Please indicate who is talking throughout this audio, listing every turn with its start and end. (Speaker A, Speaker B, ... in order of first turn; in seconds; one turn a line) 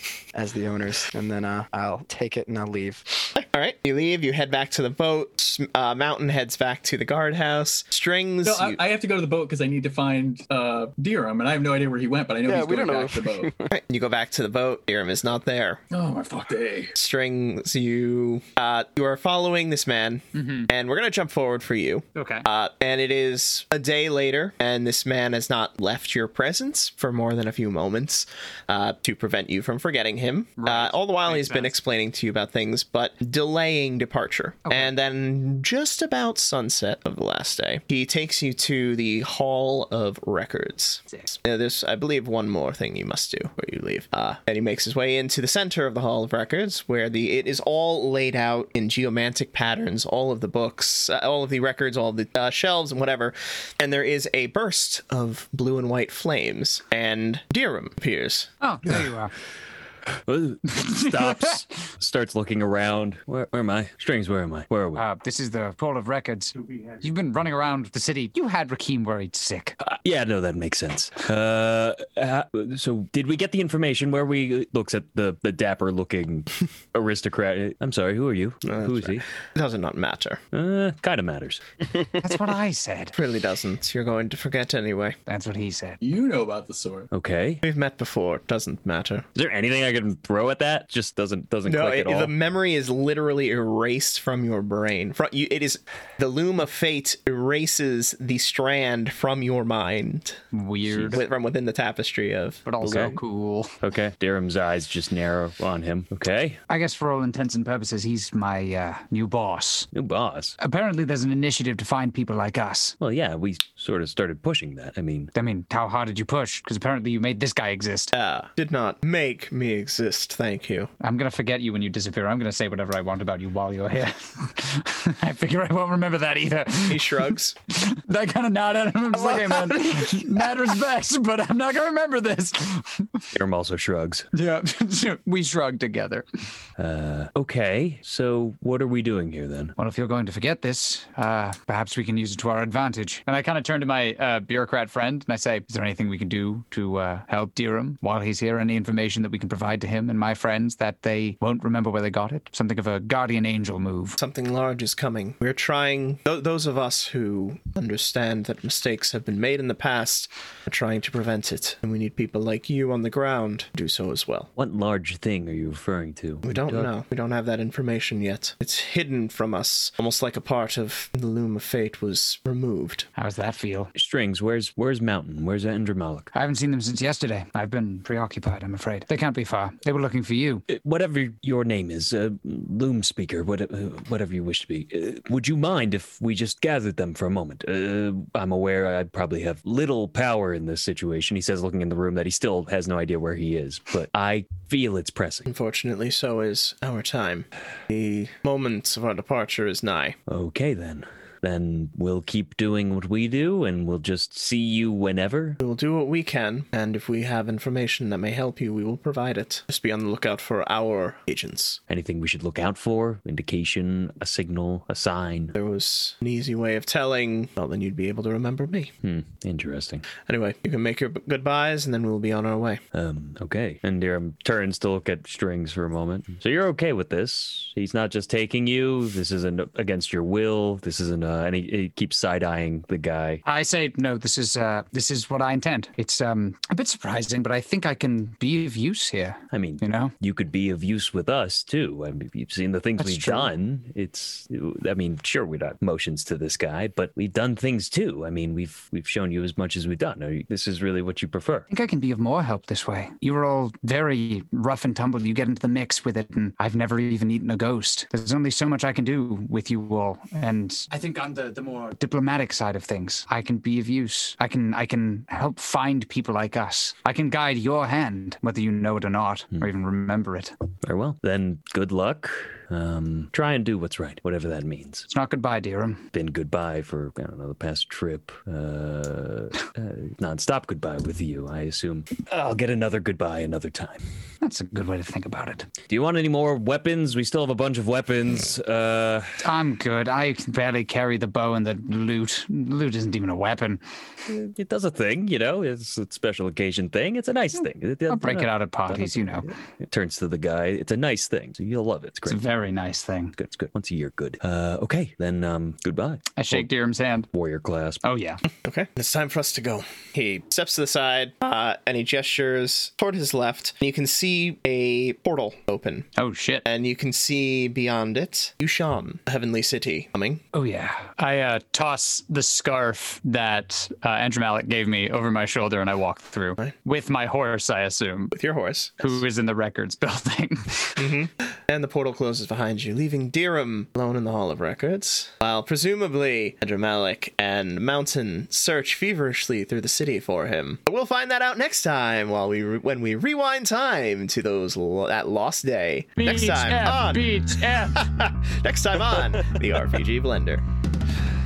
Speaker A: 0.3-3.3
Speaker B: 3.4-8.8
Speaker C: 8.4-13.5
Speaker A: 12.5-13.7
Speaker B: 13.7-15.8
Speaker C: 15.9-16.9
Speaker B: 16.9-58.5
Speaker D: 20.3-20.7
Speaker D: 22.1-22.5
Speaker D: 30.6-31.7
Speaker D: 34.6-34.9
Speaker D: 41.1-41.4
Speaker D: 58.6-59.3
Speaker E: 60.3-65.0
Speaker D: 60.7-61.6
Speaker D: 65.0-69.8
Speaker E: 69.8-79.3
Speaker B: 78.7-80.4
Speaker E: 80.5-81.6
Speaker D: 82.2-83.2
Speaker B: 83.2-85.2
Speaker D: 85.3-86.0
Speaker C: 86.0-87.1
Speaker E: 87.1-87.6
Speaker B: 87.6-89.2
Speaker E: 89.3-92.3
Speaker B: 91.7-100.4
Speaker D: 100.5-101.2
Speaker E: 100.9-101.2
Speaker B: 101.1-102.6
Speaker D: 102.7-103.8
Speaker E: 102.8-103.2
Speaker E: 103.8-106.6
Speaker D: 106.7-109.9
Speaker E: 109.9-110.5
Speaker D: 110.6-113.0
Speaker E: 113.0-115.3
Speaker D: 115.3-118.1
Speaker B: 118.1-120.9
Speaker D: 121.0-127.2
Speaker B: 126.9-127.6
Speaker D: 127.7-133.2
Speaker A: 129.1-130.4
Speaker E: 133.3-134.3
Speaker D: 134.3-136.3
Speaker E: 136.8-139.7
Speaker D: 139.8-154.2
Speaker B: 154.2-164.5
Speaker E: 164.6-166.9
Speaker B: 166.4-173.1
Speaker D: 173.2-173.9
Speaker E: 173.9-176.3
Speaker D: 176.3-180.6
Speaker E: 180.7-195.5
Speaker B: 195.5-200.2
Speaker E: 200.3-205.6
Speaker B: 205.6-211.8
Speaker E: 211.9-215.6
Speaker B: 215.6-218.9
Speaker E: 219.0-220.1
Speaker B: 220.3-222.8
Speaker E: 222.9-233.4
Speaker D: 233.4-240.1
Speaker E: 239.5-251.7
Speaker D: 243.0-243.5
Speaker D: 251.7-270.5
Speaker E: 270.9-275.1
Speaker D: 275.1-276.1
Speaker E: 276.1-284.0
Speaker D: 284.4-285.7
Speaker E: 285.9-289.3
Speaker D: 289.4-293.8
Speaker E: 294.3-302.4
Speaker D: 298.1-299.5
Speaker D: 302.3-303.3
Speaker E: 303.4-306.7
Speaker D: 306.4-307.3
Speaker E: 307.3-308.0
Speaker D: 308.0-308.4
Speaker B: 308.6-316.1
Speaker D: 316.2-316.6
Speaker B: 316.6-320.4
Speaker D: 320.5-328.4
Speaker B: 328.3-329.2
Speaker D: 329.0-331.0
Speaker B: 331.0-347.4
Speaker D: 346.2-348.1
Speaker B: 347.9-350.6